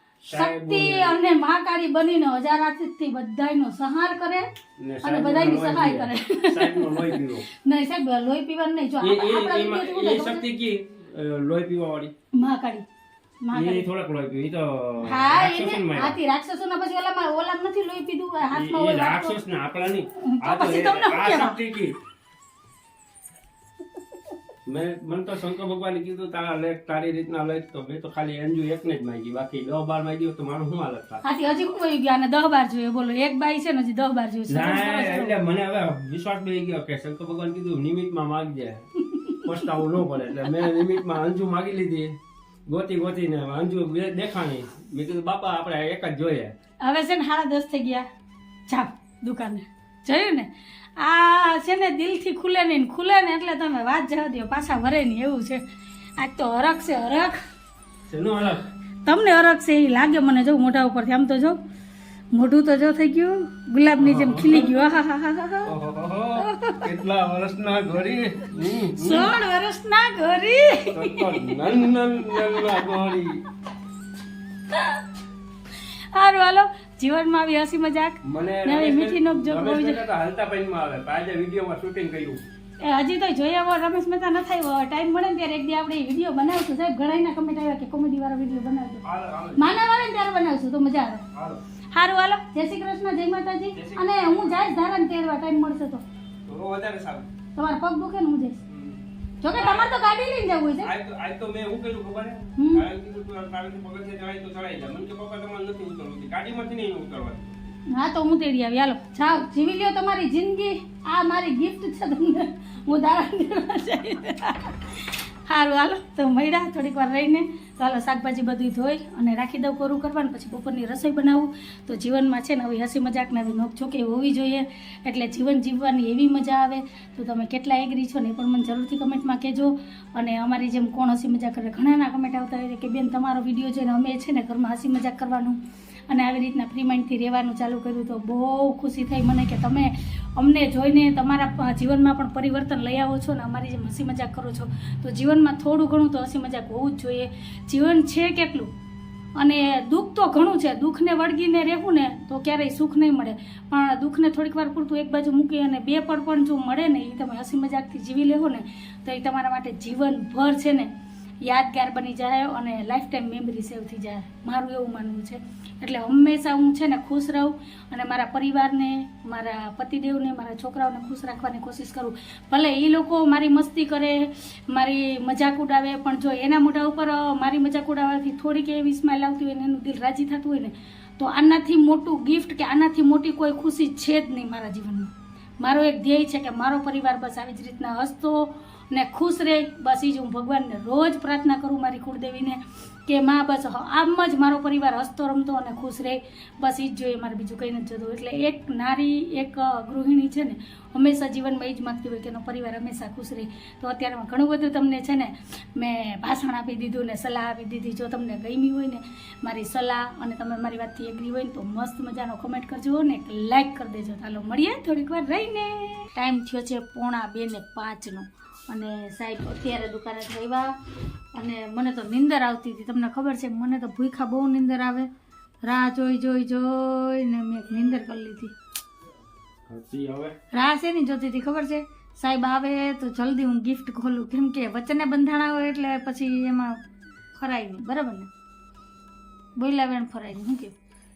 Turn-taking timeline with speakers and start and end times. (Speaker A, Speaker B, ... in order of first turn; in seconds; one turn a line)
Speaker A: 0.2-1.2
Speaker B: 0.3-4.5
Speaker A: 4.8-7.4
Speaker B: 5.0-10.4
Speaker A: 9.0-12.1
Speaker B: 12.3-12.8
Speaker B: 13.4-13.8
Speaker A: 13.5-16.2
Speaker B: 15.0-19.4
Speaker A: 18.5-22.0
Speaker B: 20.2-21.6
Speaker A: 24.6-31.2
Speaker B: 31.2-35.4
Speaker A: 34.5-38.9
Speaker B: 39.1-39.4
Speaker A: 39.4-46.5
Speaker B: 46.8-48.1
Speaker B: 48.7-55.6
Speaker B: 56.2-57.4
Speaker A: 58.1-58.7
Speaker B: 59.0-61.6
Speaker B: 62.3-65.7
Speaker A: 64.0-64.7
Speaker A: 65.6-69.3
Speaker B: 66.4-66.9
Speaker B: 68.9-71.6
Speaker A: 70.9-73.4
Speaker B: 72.3-73.0
Speaker B: 74.7-75.0
Speaker B: 76.1-80.0
Speaker A: 78.2-82.5
Speaker B: 82.8-89.0
Speaker A: 89.0-89.7
Speaker B: 89.5-91.2
Speaker A: 91.3-91.6
Speaker B: 91.9-96.0
Speaker A: 93.7-94.8
Speaker A: 96.5-97.3
Speaker B: 97.5-98.6
Speaker A: 98.7-99.0
Speaker B: 99.4-100.9
Speaker A: 99.5-99.9
Speaker A: 100.8-107.5
Speaker B: 102.6-102.8
Speaker B: 107.9-148.7
Speaker B: 149.3-220.7
Speaker B: 221.3-225.1
Speaker B: 225.6-228.5
Speaker A: 229.7-230.3
Speaker B: 230.5-236.8
Speaker B: 237.3-238.3
Speaker B: 239.6-240.7